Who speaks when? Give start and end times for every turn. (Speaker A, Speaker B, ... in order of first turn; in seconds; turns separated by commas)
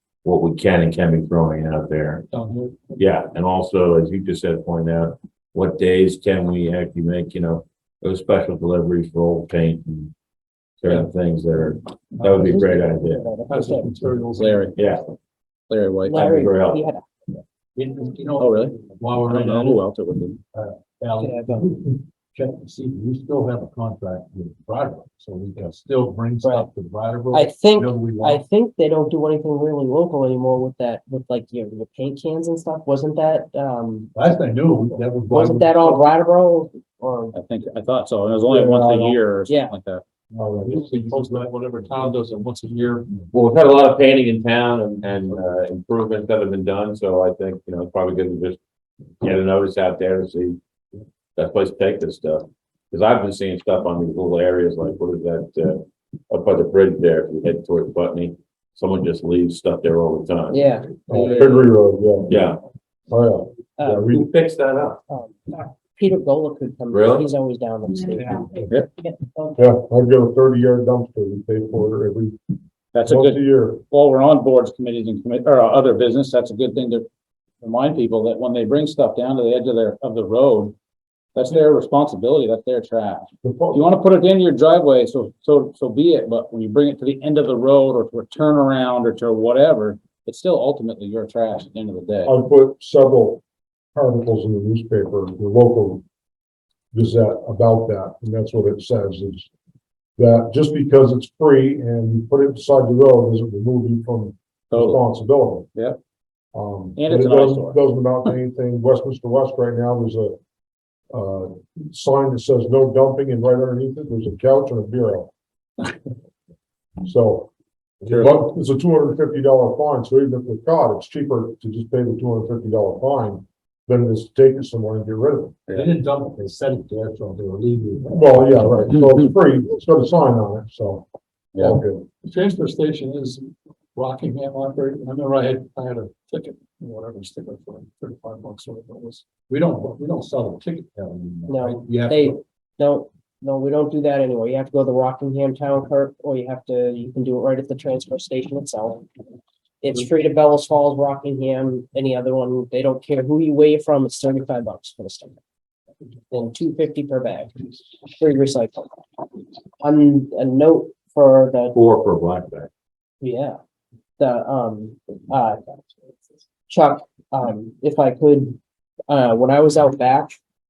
Speaker A: 0.2-2.2, Speaker B: 2.3-3.0, Speaker A: 3.0-10.1, Speaker A: 10.8-13.3, Speaker B: 12.1-12.6, Speaker C: 12.4-14.0, Speaker B: 13.5-14.8, Speaker D: 14.3-14.8, Speaker A: 14.7-15.0, Speaker D: 15.7-16.2, Speaker C: 16.0-17.1, Speaker A: 16.1-16.8, Speaker E: 17.7-19.8, Speaker D: 18.4-20.4, Speaker E: 20.5-28.4, Speaker C: 21.2-21.7, Speaker C: 26.4-26.7, Speaker C: 27.3-34.1, Speaker E: 34.1-36.0, Speaker C: 35.3-37.3, Speaker D: 37.3-40.0, Speaker F: 38.5-39.2, Speaker C: 39.5-39.7, Speaker E: 40.3-42.1, Speaker B: 40.6-43.2, Speaker A: 43.3-48.6, Speaker A: 49.2-50.6, Speaker A: 51.4-60.6, Speaker C: 60.5-61.0, Speaker F: 61.1-62.4, Speaker D: 61.1-61.7, Speaker A: 62.3-62.6, Speaker F: 63.1-64.2, Speaker C: 63.8-64.1, Speaker A: 64.1-65.0, Speaker C: 65.1-69.5, Speaker A: 66.9-67.3, Speaker F: 69.5-72.4, Speaker D: 72.9-77.1, Speaker F: 73.0-73.8, Speaker D: 77.6-80.7, Speaker D: 81.3-92.3, Speaker F: 83.4-83.8, Speaker F: 92.2-93.4, Speaker F: 93.9-96.0, Speaker F: 96.9-99.5, Speaker F: 100.2-105.7, Speaker D: 104.7-105.0, Speaker F: 106.5-110.4, Speaker D: 107.0-107.8, Speaker F: 111.1-115.3, Speaker F: 117.0-117.5, Speaker F: 118.0-125.7, Speaker E: 125.7-128.9, Speaker F: 128.1-132.1, Speaker B: 132.2-139.2, Speaker E: 139.5-142.4, Speaker C: 141.5-149.1, Speaker C: 149.8-155.4, Speaker C: 156.3-158.9, Speaker C: 159.8-161.8, Speaker A: 161.7-162.7, Speaker C: 163.2-163.6, Speaker C: 164.2-165.6, Speaker C: 166.7-170.4